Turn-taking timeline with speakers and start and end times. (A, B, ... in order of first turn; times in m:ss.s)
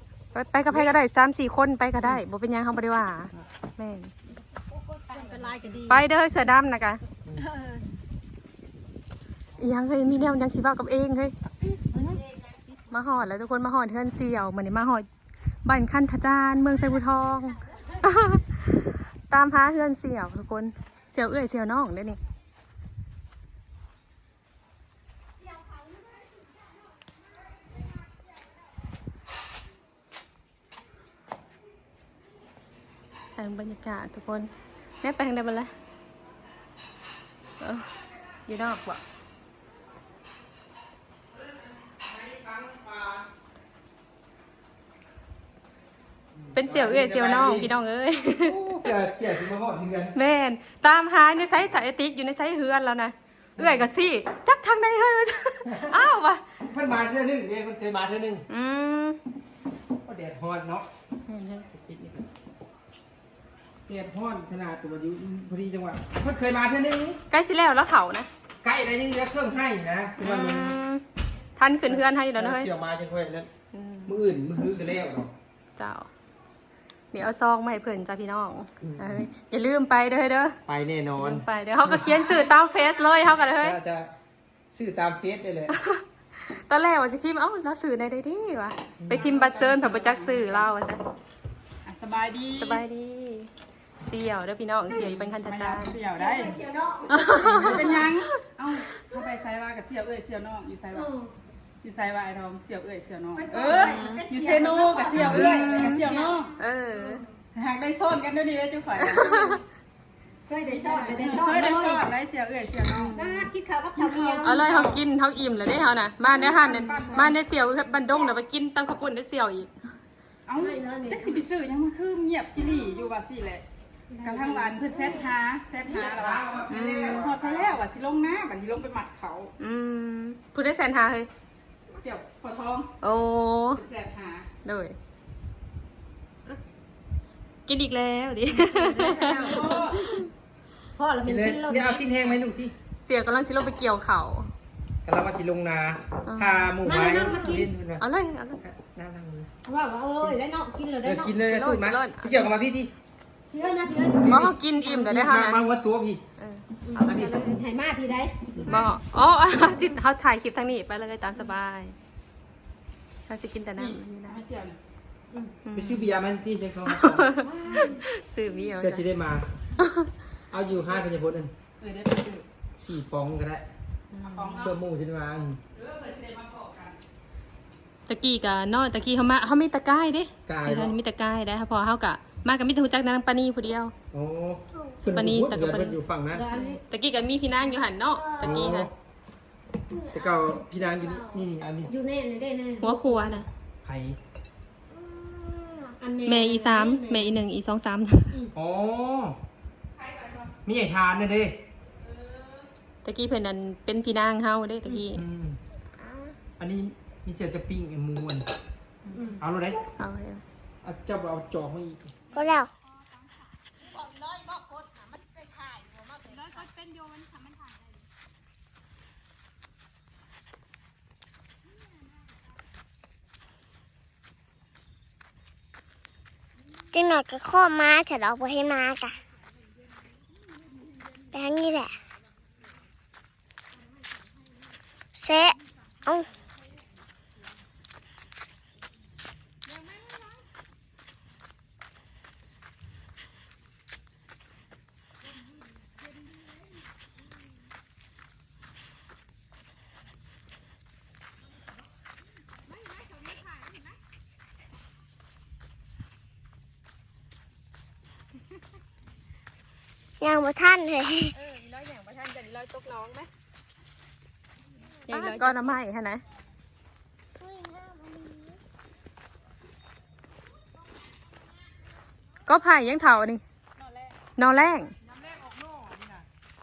0:00.3-0:04.1 A
0:04.5-0:06.0 B
0:05.8-0:07.0 A
0:07.4-0:07.8 B
0:09.6-0:11.3 A
0:11.8-0:12.2 B
0:12.9-0:15.1 A
0:15.6-0:22.2 A
0:33.4-0:35.7 A
0:37.6-0:37.9 A
0:38.4-0:39.0 A
0:42.0-0:43.2 C
0:46.4-0:47.7 C
0:46.5-0:48.9 A
0:48.4-0:50.1 C
0:50.1-0:56.6 A
0:53.6-0:53.9 C
0:55.7-0:56.0 C
0:56.6-0:58.4 C
0:58.5-0:59.2 A
1:00.0-1:00.9 C
1:01.3-1:01.7 A
1:01.7-1:02.2 C
1:03.9-1:07.2 C
1:07.3-1:08.3 A
1:08.6-1:10.7 C
1:10.2-1:11.0 A
1:11.6-1:12.7 A
1:11.9-1:13.5 C
1:13.7-1:14.2 A
1:14.1-1:15.3 C
1:15.8-1:16.1 A
1:17.1-1:20.6 A
1:18.8-1:19.3 C
1:20.7-1:22.2 C
1:21.2-1:23.8 A
1:22.0-1:23.5 D
1:23.6-1:24.1 C
1:24.7-1:25.8 C
1:25.7-1:31.0 A
1:29.0-1:29.3 C
1:29.1-1:30.7 D
1:31.8-1:32.8 D
1:32.6-1:36.0 A
1:35.4-1:36.6 D
1:36.1-1:37.9 B
1:37.1-1:38.3 A
1:37.4-1:41.1 D
1:40.9-1:41.3 B
1:41.8-1:46.5 D
1:43.3-1:47.2 B
1:43.7-1:44.2 A
1:45.2-1:47.2 A
1:47.5-1:49.4 D
1:49.0-1:49.6 A
1:50.5-1:52.0 B
1:50.7-1:53.2 D
1:52.9-1:53.5 A
1:53.1-1:54.7 B
1:54.0-1:55.0 D
1:54.4-1:59.9 A
1:56.3-1:57.4 D
1:56.3-1:57.4 B
2:00.5-2:03.6 D
2:00.6-2:01.4 B
2:04.1-2:05.3 B
2:04.2-2:09.5 D
2:05.9-2:07.8 C
2:06.7-2:07.2 A
2:09.6-2:11.3 A
2:12.0-2:13.0 D
2:13.0-2:13.8 A
2:13.7-2:14.5 D
2:14.6-2:15.0 A
2:17.7-2:20.3 A
2:18.5-2:20.2 B
2:19.3-2:20.1 D
2:21.0-2:22.3 B
2:21.2-2:22.7 C
2:23.0-2:24.5 A
2:25.0-2:28.0 C
2:26.2-2:27.3 A
2:26.8-2:27.6 B
2:28.0-2:28.6 A
2:28.6-2:29.5 C
2:29.6-2:31.4 B
2:31.0-2:32.9 C
2:31.4-2:32.5 A
2:33.5-2:34.9 B
2:34.2-2:36.2 C
2:34.2-2:35.7 A
2:36.4-2:37.3 A
2:36.8-2:38.6 B
2:37.0-2:37.5 C
2:38.6-2:38.8 C
2:38.6-2:42.0 A
2:43.3-2:44.4 A
2:43.8-2:44.8 D
2:45.6-2:46.1 A
2:45.7-2:47.3 C
2:46.9-2:49.0 A
2:47.4-2:48.0 B
2:48.8-2:49.5 C
2:49.8-2:50.1 A
2:50.5-2:51.5 C
2:51.8-2:52.4 D
2:52.8-2:53.6 C
2:54.1-2:54.7 A
2:54.2-2:54.8 D
2:54.6-2:55.6 C
2:55.7-2:57.0 D
2:58.1-3:03.9 A
3:00.5-3:01.0 C
3:04.1-3:06.4 C
3:05.0-3:06.0 A
3:06.3-3:06.8 B
3:06.6-3:08.9 A
3:08.1-3:08.7 B
3:08.4-3:08.9 C
3:10.1-3:11.9 C
3:10.1-3:11.4 E
3:11.8-3:13.4 B
3:12.8-3:13.5 A
3:13.8-3:14.2 C
3:14.9-3:16.0 E
3:16.0-3:17.4 B
3:16.2-3:18.4 A
3:18.5-3:19.4 C
3:20.0-3:20.5 D
3:20.6-3:21.5 C
3:22.1-3:22.6 D
3:23.0-3:25.2 A
3:24.9-3:25.6 C
3:26.0-3:26.4 E
3:26.6-3:28.5 C
3:29.1-3:29.4 B
3:29.4-3:29.8 C
3:30.0-3:30.4 A
3:30.8-3:32.1 C
3:32.3-3:33.6 D
3:32.3-3:32.7 E
3:33.8-3:36.6 B
3:36.3-3:38.1 D
3:41.7-3:42.4 D
3:46.9-3:49.2 E
3:50.6-3:51.1 D
3:51.3-3:52.0 E
3:55.1-3:56.3 E
3:59.7-4:00.4 D
4:20.2-4:21.4 E
4:21.3-4:23.3 A
4:25.0-4:25.4 E
4:25.1-4:25.8 D
4:25.1-4:26.2 A
4:27.4-4:28.6 E
4:32.5-4:33.4 A
4:33.8-4:34.2 D
4:34.4-4:34.9 A
4:35.4-4:36.2 C